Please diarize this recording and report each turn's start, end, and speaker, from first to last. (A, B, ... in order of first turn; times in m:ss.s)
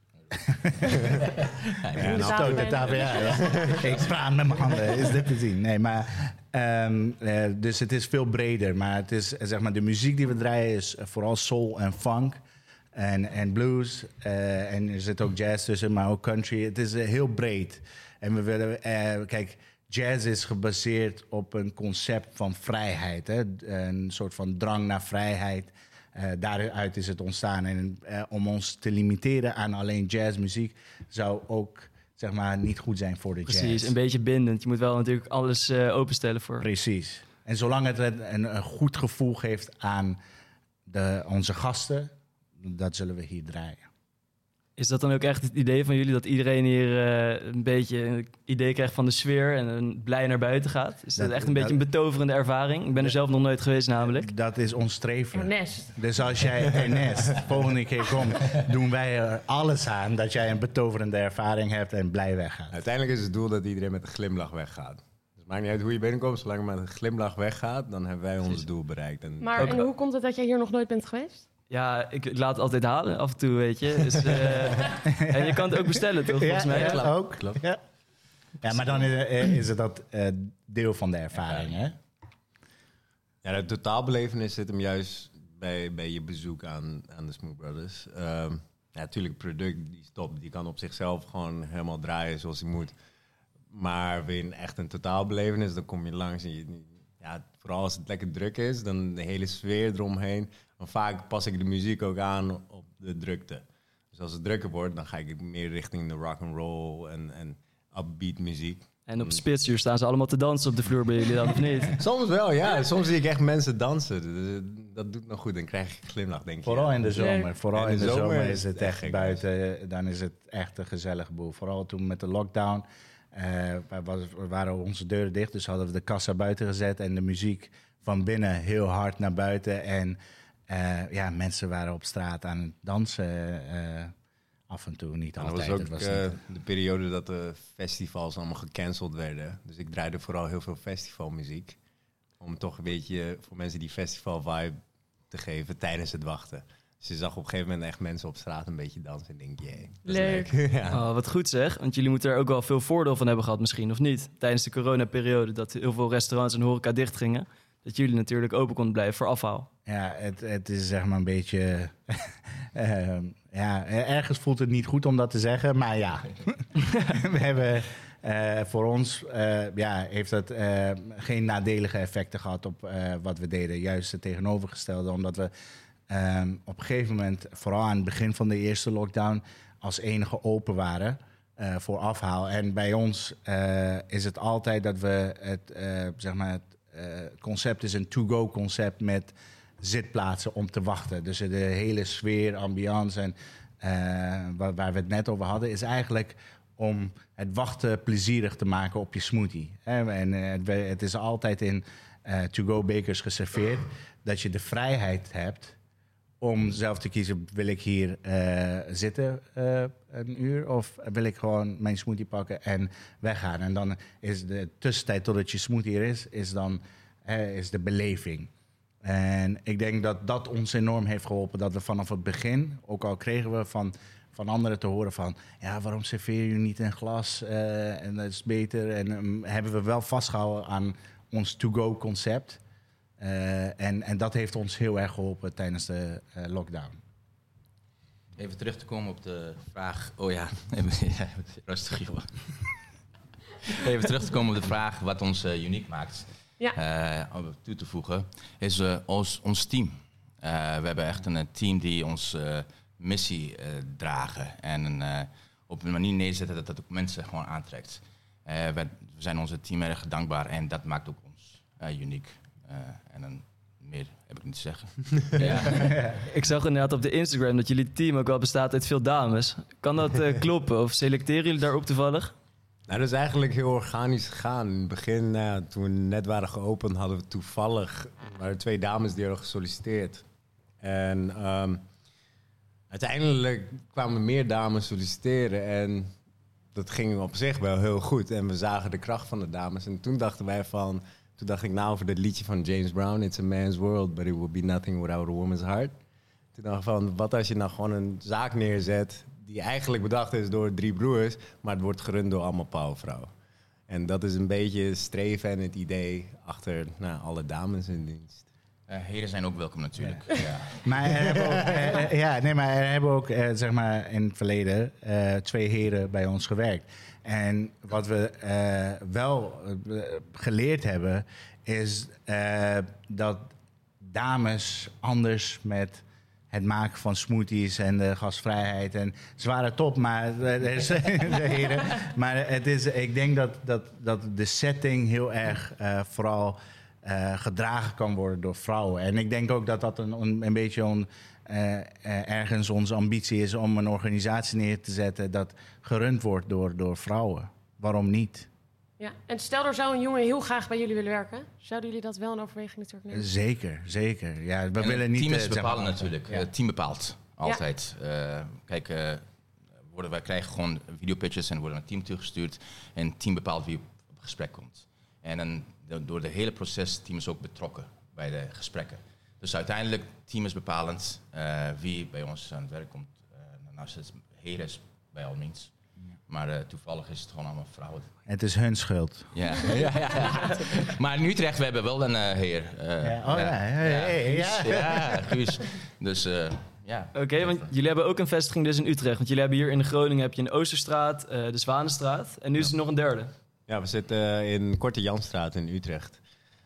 0:00.3-0:01.4 A
0:01.2-0:04.1 B
0:01.9-0:12.4 A
0:02.0-0:02.6 C
0:02.0-0:03.8 D
0:03.2-0:03.8 C
0:13.0-0:34.0 A
0:33.5-0:36.6 E
0:36.6-0:40.2 A
0:40.9-0:43.9 A
0:44.8-0:54.3 E
0:51.2-0:51.8 A
0:54.1-1:02.8 A
0:55.4-0:55.9 D
1:02.7-1:09.9 C
1:09.4-1:11.4 D
1:09.6-1:09.9 E
1:11.7-1:17.2 E
1:14.9-1:17.8 A
1:18.6-1:22.0 A
1:23.4-1:32.9 C
1:33.7-1:49.4 C
1:49.1-1:52.0 E
1:51.9-1:59.4 C
1:56.6-2:10.2 A
1:57.2-1:57.5 D
2:10.7-2:14.1 A
2:14.7-2:16.4 A
2:15.4-2:21.8 C
2:22.4-2:24.8 C
2:25.3-2:31.0 C
2:30.1-2:30.5 D
2:30.9-2:39.7 E
2:39.9-2:55.5 A
2:56.1-3:25.8 A
3:26.4-3:38.5 A
3:39.0-3:52.6 A
3:53.2-3:57.0 A
3:58.4-4:02.8 B
4:03.6-4:26.2 B
4:25.4-4:32.3 E
4:32.9-4:40.2 C
4:40.8-4:41.8 C
4:42.9-4:46.1 C
4:46.7-4:56.0 C
4:56.5-5:03.3 C
5:03.9-5:08.5 C
5:08.9-5:11.7 B
5:10.8-5:48.5 A
5:49.0-5:53.3 D
5:53.1-5:56.5 A
5:54.8-5:59.3 B
5:59.8-6:15.7 B
6:16.3-6:18.1 B
6:18.3-6:19.3 A
6:19.3-6:27.7 B
6:23.0-6:25.4 A
6:27.2-6:33.3 E
6:33.7-6:36.2 C